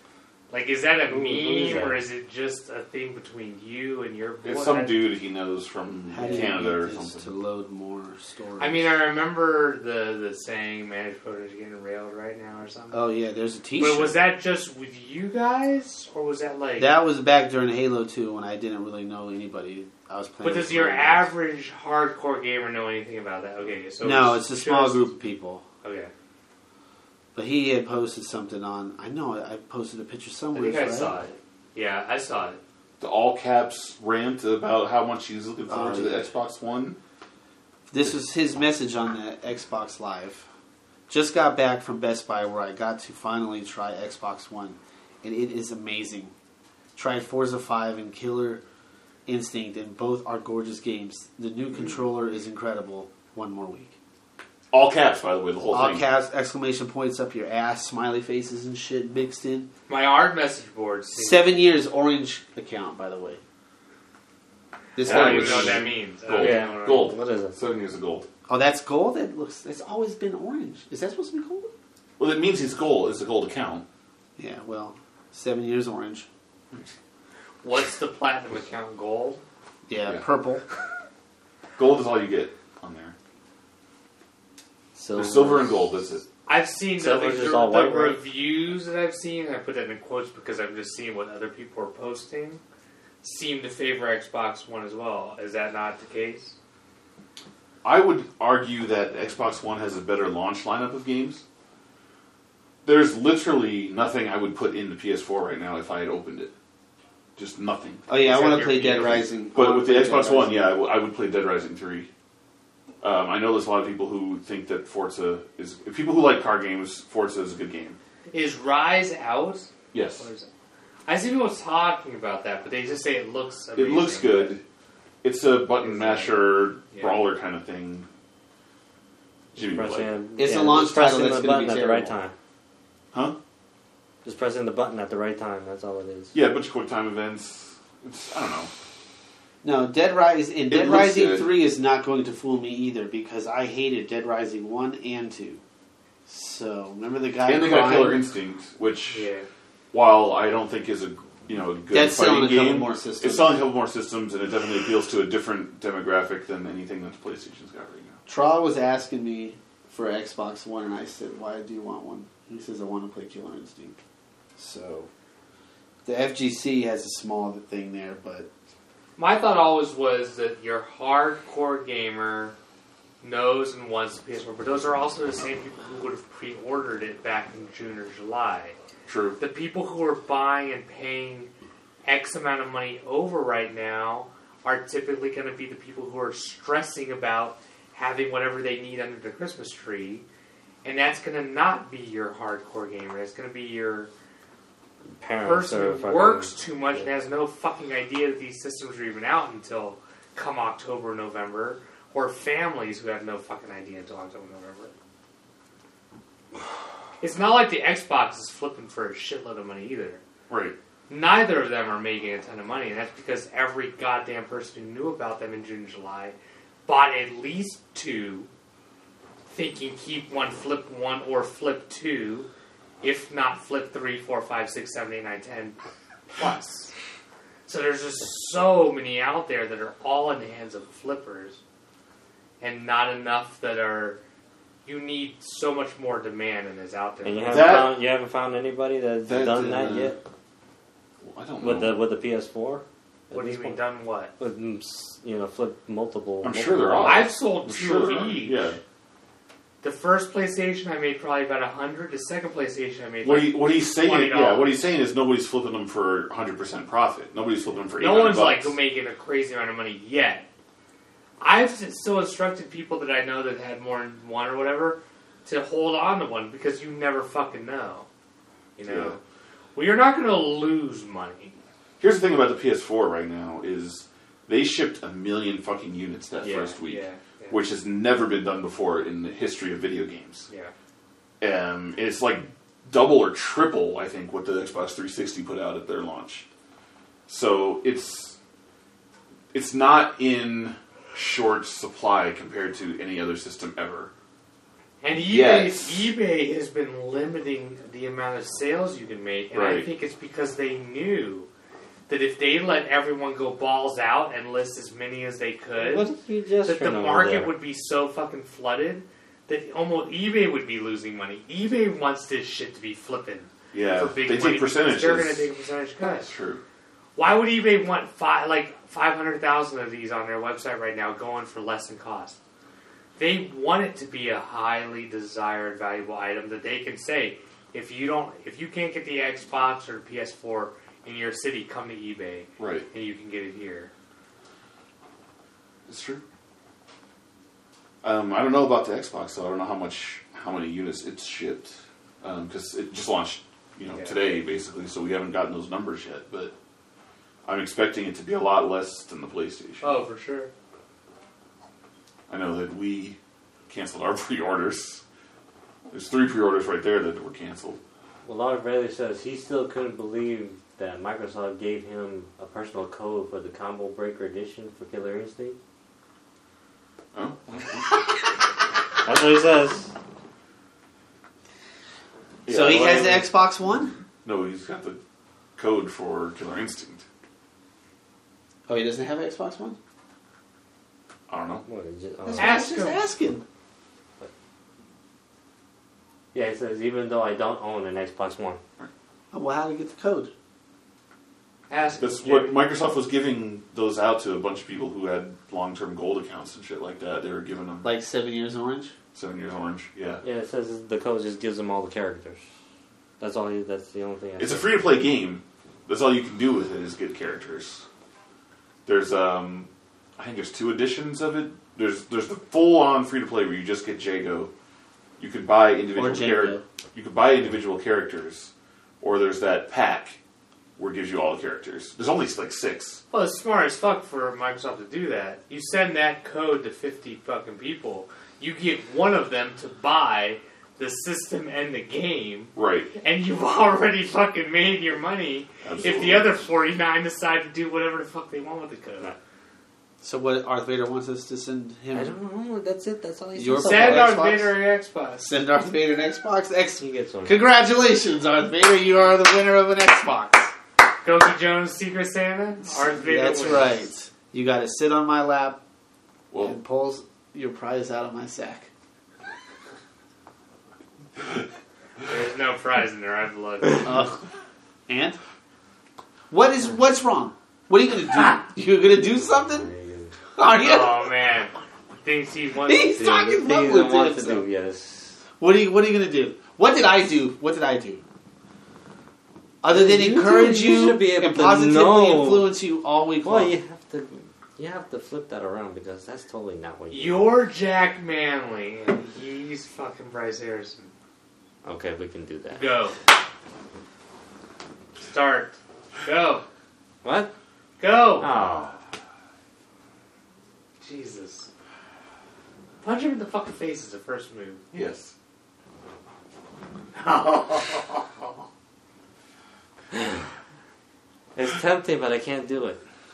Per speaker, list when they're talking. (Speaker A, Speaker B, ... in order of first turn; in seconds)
Speaker A: 0.5-5.0, 8.6-13.0, 13.8-16.9, 20.4-25.1, 25.8-26.1, 30.5-32.6, 59.9-61.5, 65.0-67.1, 77.6-79.4, 86.5-92.6, 93.2-96.6, 108.2-109.3, 118.3-120.5, 121.1-124.5, 125.8-127.3, 149.1-149.5, 169.2-172.6, 173.2-178.8, 179.4-181.5, 182.0-190.2, 190.8-194.1, 195.4-204.9, 207.2-210.2, 211.1-216.3, 216.9-218.5, 219.5-222.5, 223.0-225.8, 226.3-226.9, 227.7-231.6, 232.6-234.2, 234.8-237.7, 243.3-244.3, 247.0-248.8, 249.8-254.7, 258.0-260.5, 261.4-268.1, 268.8-269.2, 269.8-271.6, 276.4-277.6, 295.0-301.5, 302.1-306.1, 306.6-316.3, 317.1-322.4, 323.2-333.9, 343.9-344.2, 349.8-350.5, 382.4-383.0, 391.7-392.6, 423.1-439.1, 443.6-445.3, 451.0-453.8, 462.0-464.1, 470.6-473.0, 486.9-490.9, 492.5-493.0, 495.1-496.4, 497.8-498.3, 500.8-501.5, 502.8-504.6
Speaker B: 1.1-2.0, 66.3-67.6, 85.2-85.5, 87.0-88.2, 129.6-132.3, 134.2-136.3, 195.2-197.1, 237.2-240.2, 241.6-243.8, 244.4-247.3, 305.8-307.5, 358.2-365.6, 369.0-369.9, 381.6-382.6, 386.3-388.6, 400.2-402.4, 403.2-404.7, 441.9-444.1, 446.8-447.4, 469.2-470.1, 472.9-475.2, 479.7-482.5, 483.2-487.4, 491.6-492.7, 497.0-497.3, 498.2-498.8, 511.4-512.8
Speaker C: 4.4-7.3, 33.0-37.0, 54.7-56.0, 65.0-68.3, 72.2-73.8, 81.8-83.2, 85.2-86.2, 97.8-101.4, 102.8-106.5, 107.4-108.0, 109.5-112.1, 113.0-118.0, 119.9-120.3, 123.8-124.6, 125.2-128.1, 129.5-130.1, 136.3-138.7, 140.7-141.5, 147.4-149.3, 149.9-158.2, 179.1-179.4, 210.5-210.8, 237.5-237.9, 239.3-240.1, 241.2-242.0, 246.4-248.8, 253.2-258.8, 268.9-269.1, 272.0-280.5, 281.4-286.5, 287.3-288.4, 289.5-294.1, 295.1-296.1, 299.5-299.9, 313.7-315.5, 316.2-316.6, 332.6-332.9, 335.9-336.2, 338.0-346.5, 347.4-349.9, 352.3-355.0, 355.9-357.8, 367.1-368.1, 372.5-373.3, 374.2-375.0, 375.6-377.0, 381.3-381.6, 392.0-397.9, 399.1-400.2, 404.4-407.9, 408.9-414.5, 415.2-420.2, 420.8-423.0, 432.6-432.9, 435.6-436.4, 456.3-456.6, 504.7-505.1
Speaker D: 6.1-8.9, 12.9-14.2, 16.8-21.3, 24.0-25.6, 27.4-31.2, 35.7-36.3, 37.9-40.5, 41.1-46.3, 47.0-48.6, 49.3-54.0, 55.7-59.7, 61.2-63.4, 65.0-65.9, 68.5-71.7, 74.4-76.3, 79.9-80.6, 85.0-85.7, 108.1-110.8, 130.4-132.2, 139.6-145.6, 146.3-148.2, 151.9-153.6, 158.3-164.0, 164.6-165.1, 166.1-168.5, 372.5-373.9, 378.7-379.8, 382.2-383.4, 389.3-390.3, 397.8-398.9, 415.9-416.6, 440.0-442.1, 443.4-444.5, 445.2-450.5, 452.7-455.6, 456.4-458.7, 463.8-464.2, 464.9-465.2, 466.3-469.7, 470.4-471.1, 472.6-474.4, 475.4-478.0, 479.6-483.5